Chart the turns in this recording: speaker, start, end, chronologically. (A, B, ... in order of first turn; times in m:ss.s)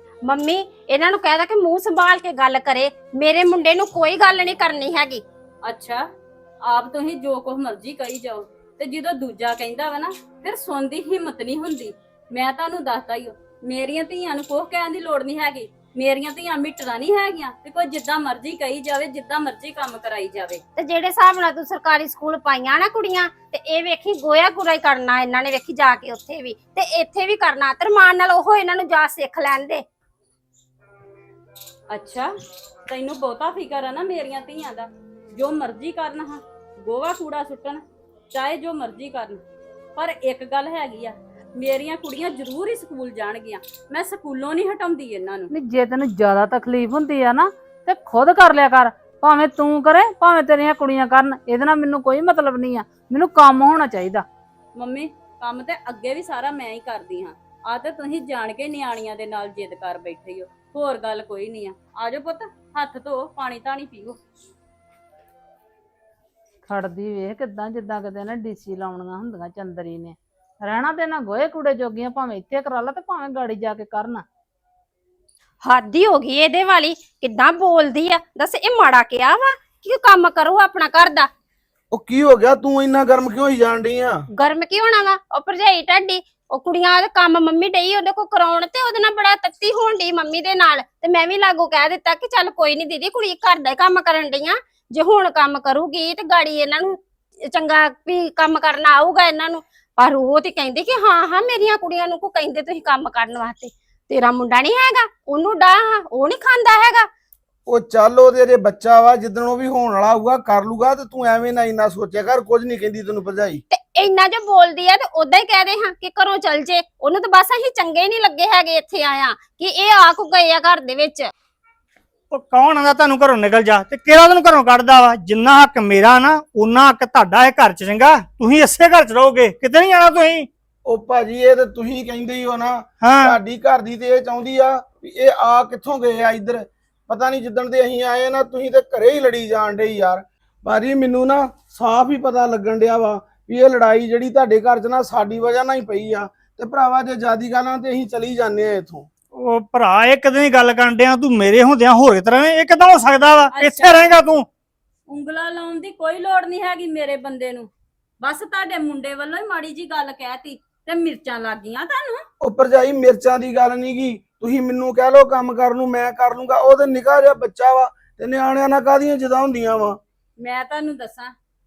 0:00.2-0:05.2 A
0:05.6-0:06.0 B
0:06.6-0:20.6 B
0:20.8-0:29.8 A
0:31.9-0:32.3 B
0:32.9-0:37.8 B
0:38.3-0:39.4 B
0:40.0-0:45.5 B
0:45.5-0:54.2 C
0:54.8-1:04.2 B
1:06.7-1:14.2 C
1:15.6-1:21.3 A
1:21.9-1:24.2 D
1:24.3-1:47.1 A
1:47.7-1:53.6 D
1:53.7-2:01.3 A
2:02.3-2:10.5 E
2:10.9-2:29.1 D
2:13.0-2:13.4 E
2:29.4-2:34.5 E
2:33.5-2:34.2 B
2:35.1-2:37.7 B
2:38.2-2:42.3 B
2:42.4-2:50.0 D
2:50.4-2:51.3 B